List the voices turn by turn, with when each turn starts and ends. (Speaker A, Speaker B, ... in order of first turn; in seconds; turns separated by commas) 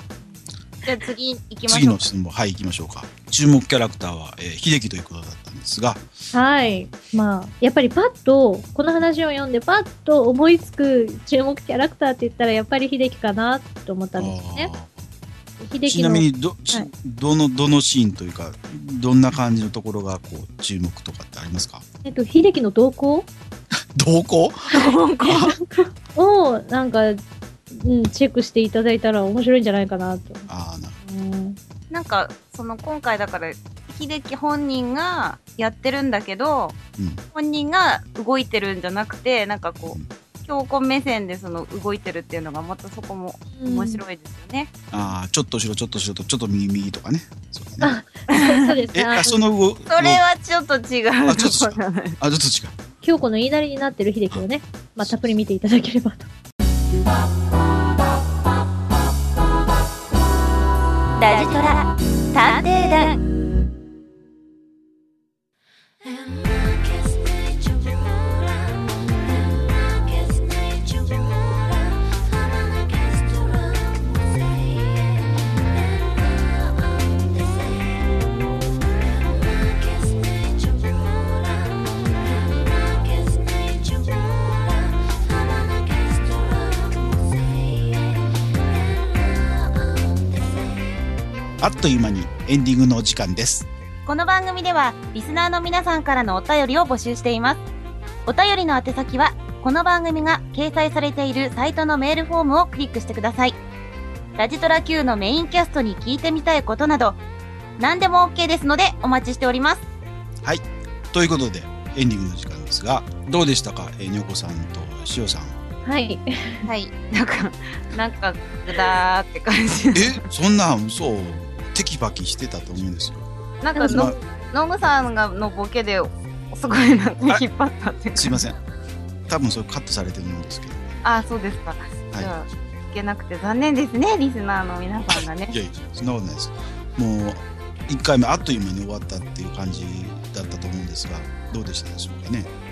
Speaker A: 0.2-2.0, Speaker B: 1.7-6.0, Speaker C: 6.3-14.7, Speaker B: 14.2-15.0, Speaker C: 15.6-16.9, Speaker B: 15.8-21.8, Speaker C: 22.0-23.3, Speaker B: 23.9-25.6, Speaker A: 24.7-25.4, Speaker C: 25.3-30.5, Speaker B: 30.5-31.0, Speaker C: 31.0-31.6, Speaker A: 31.9-36.8, Speaker B: 37.0-37.2, Speaker A: 37.3-44.7, Speaker C: 43.5-44.0, Speaker B: 44.9-47.9, Speaker C: 47.8-49.4, Speaker A: 48.3-48.7, Speaker B: 48.9-50.2, Speaker A: 49.9-52.1, Speaker B: 51.2-52.8, Speaker C: 53.0-56.3, Speaker B: 55.0-55.4, Speaker A: 61.2-63.2, Speaker B: 91.6-93.7, Speaker A: 94.0-97.6, Speaker A: 98.3-103.6, Speaker A: 104.4-107.2, Speaker A: 107.8-109.8, Speaker B: 110.5-115.6, Speaker C: 115.8-116.7, Speaker A: 116.7-120.3, Speaker B: 119.9-123.3, Speaker A: 123.6-128.4, Speaker C: 123.7-124.2, Speaker B: 123.9-124.2, Speaker B: 128.2-128.6, Speaker B: 129.3-130.9, Speaker A: 131.0-135.6, Speaker B: 135.1-142.5